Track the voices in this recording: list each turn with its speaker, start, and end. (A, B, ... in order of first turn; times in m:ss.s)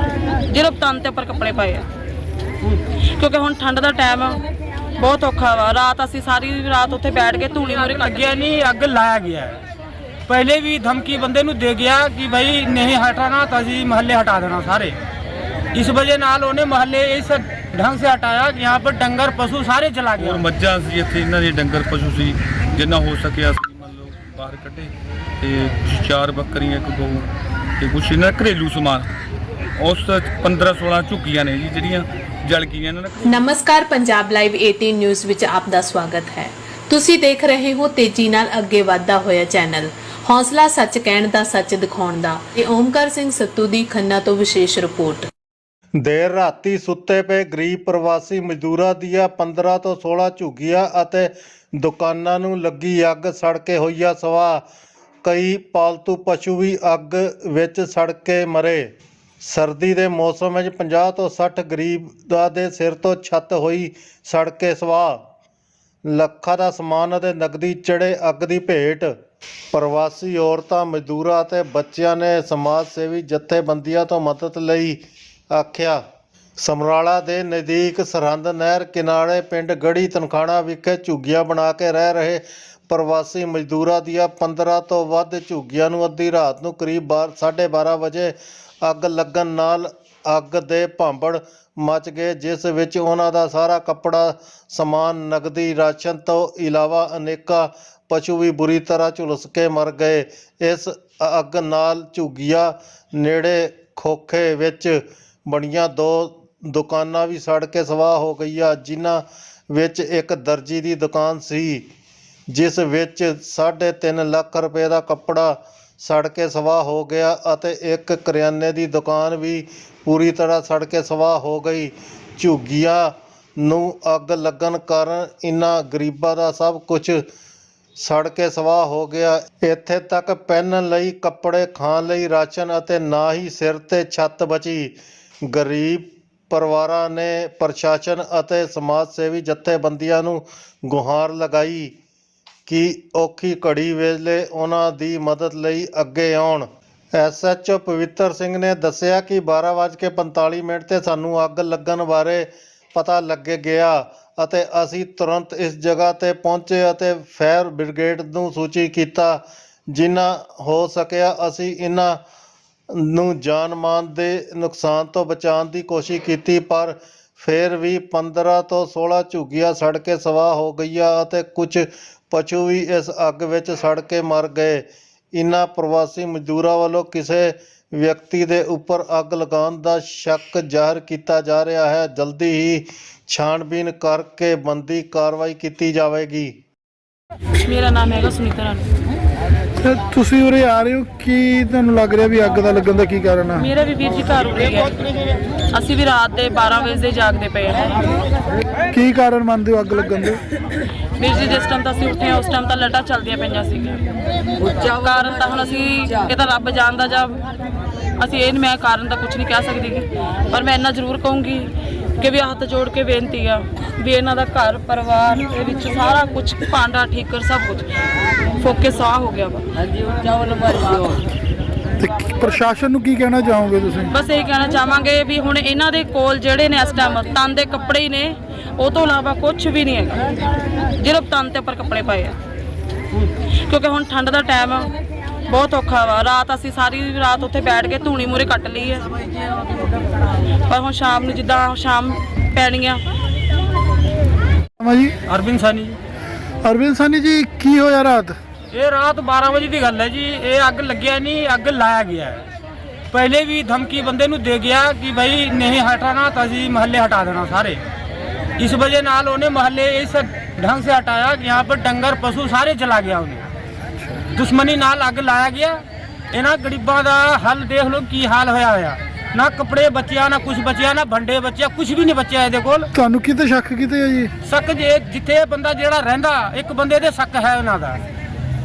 0:00.5-0:01.9 A
0:03.2-0:04.4 A
0:05.0-0:08.4 A
0:08.0-0:09.6 B
0:10.3-0:14.9 B
0:15.8-0:20.4 B
0:20.2-0:27.3 C
0:27.8-0:29.1 C
0:29.8-0:33.4 C
0:33.2-0:45.3 D
0:46.0-0:54.6 E
0:55.2-0:58.9 E
0:59.4-1:05.2 E
1:06.1-1:09.1 E
1:09.7-1:15.0 E
1:15.5-1:16.0 E
1:16.6-1:51.8 E
1:52.5-2:07.2 E
2:08.0-2:14.9 E
2:15.5-2:21.9 E
2:22.7-2:39.4 E
2:39.9-2:42.2 E
2:43.0-3:06.6 E
3:07.6-3:08.9 A
3:09.8-3:13.7 F
3:13.6-3:15.0 A
3:15.7-3:18.1 A
3:18.9-3:20.4 F
3:21.2-3:24.0 A
3:24.6-3:27.4 A
3:28.2-3:37.9 A
3:38.6-3:39.8 A
3:40.6-3:41.1 A
3:42.0-3:44.1 F
3:44.1-3:50.3 A
3:51.0-3:52.4 A
3:53.2-3:54.9 A
3:55.5-3:59.2 A
4:00.7-4:03.0 A
4:04.8-4:05.1 F
4:05.3-4:05.9 B
4:06.6-4:08.4 F
4:08.7-4:12.4 B
4:13.1-4:17.8 B
4:18.6-4:23.4 B
4:24.0-4:24.2 F
4:24.4-4:25.8 B
4:26.3-4:32.8 B
4:32.9-4:34.3 F
4:34.5-4:38.0 B